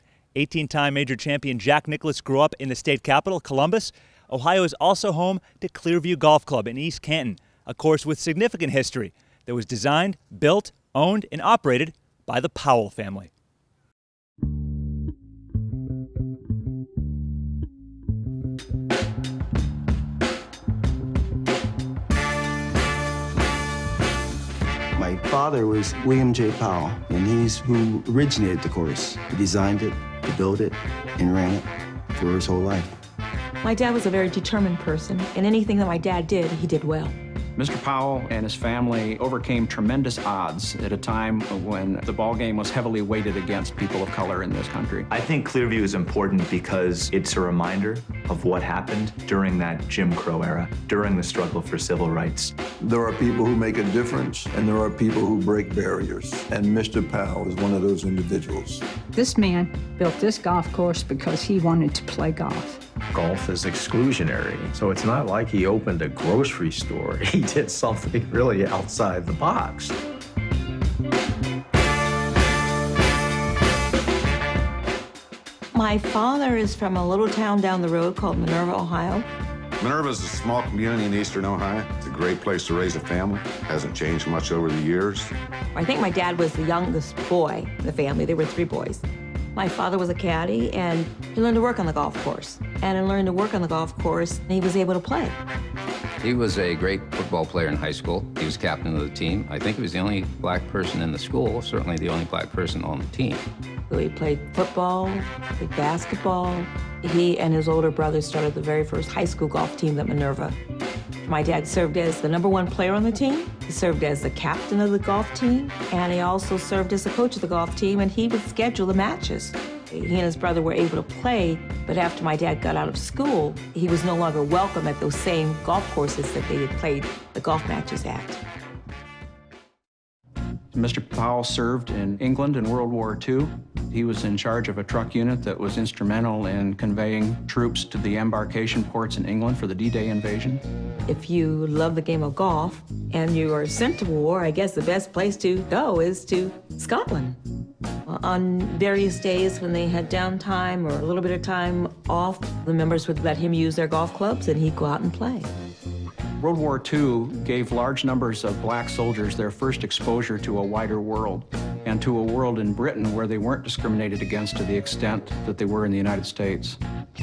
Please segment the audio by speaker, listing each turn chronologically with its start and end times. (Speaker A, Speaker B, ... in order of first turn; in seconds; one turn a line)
Speaker A: 0.3-13.3
Speaker B: 24.9-33.0
Speaker C: 33.6-37.2
Speaker D: 37.6-45.1
Speaker E: 45.1-52.5
Speaker F: 52.8-58.8
Speaker G: 59.1-62.8
Speaker H: 63.1-70.0
Speaker C: 75.7-79.3
Speaker I: 79.8-85.3
Speaker C: 85.7-89.0
Speaker C: 89.5-95.4
Speaker J: 96.2-103.4
Speaker C: 103.9-110.6
Speaker C: 111.2-128.4
Speaker D: 130.7-140.6
Speaker C: 141.1-147.4
Speaker C: 148.0-155.5
Speaker D: 156.4-166.8